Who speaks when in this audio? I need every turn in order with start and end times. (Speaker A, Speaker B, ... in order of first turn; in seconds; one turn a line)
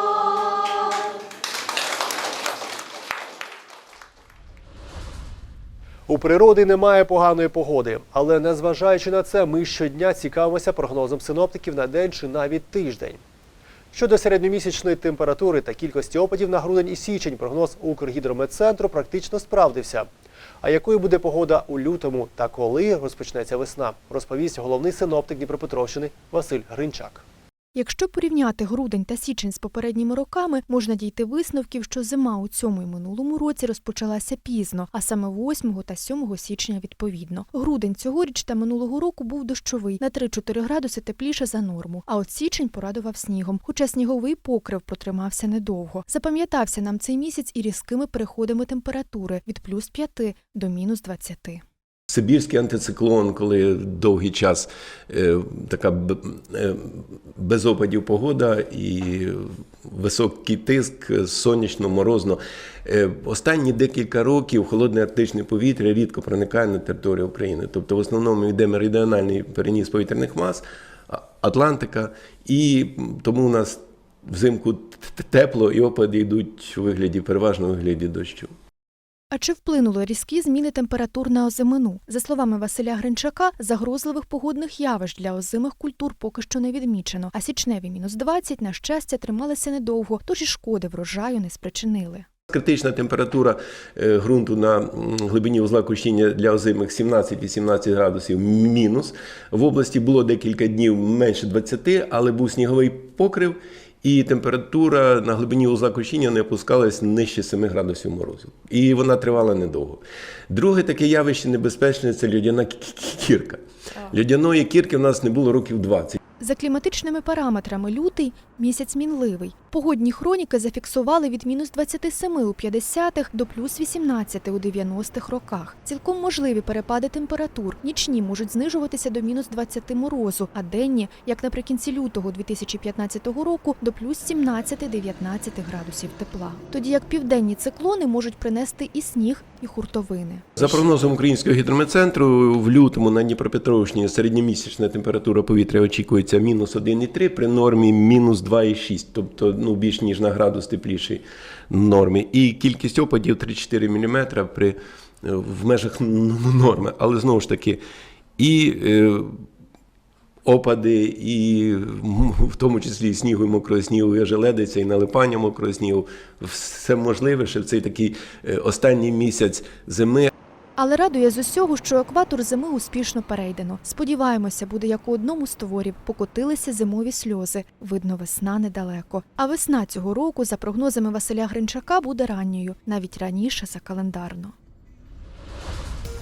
Speaker A: 6.1-13.2
Speaker A: 13.9-20.1
Speaker A: 20.6-27.2
Speaker B: 27.7-51.6
Speaker C: 52.1-78.5
Speaker B: 79.3-92.2
Speaker C: 92.5-116.2
Speaker B: 116.4-140.4
Speaker C: 140.6-157.8
Speaker C: 158.4-159.4
Speaker C: 160.4-170.3
Speaker B: 170.8-184.5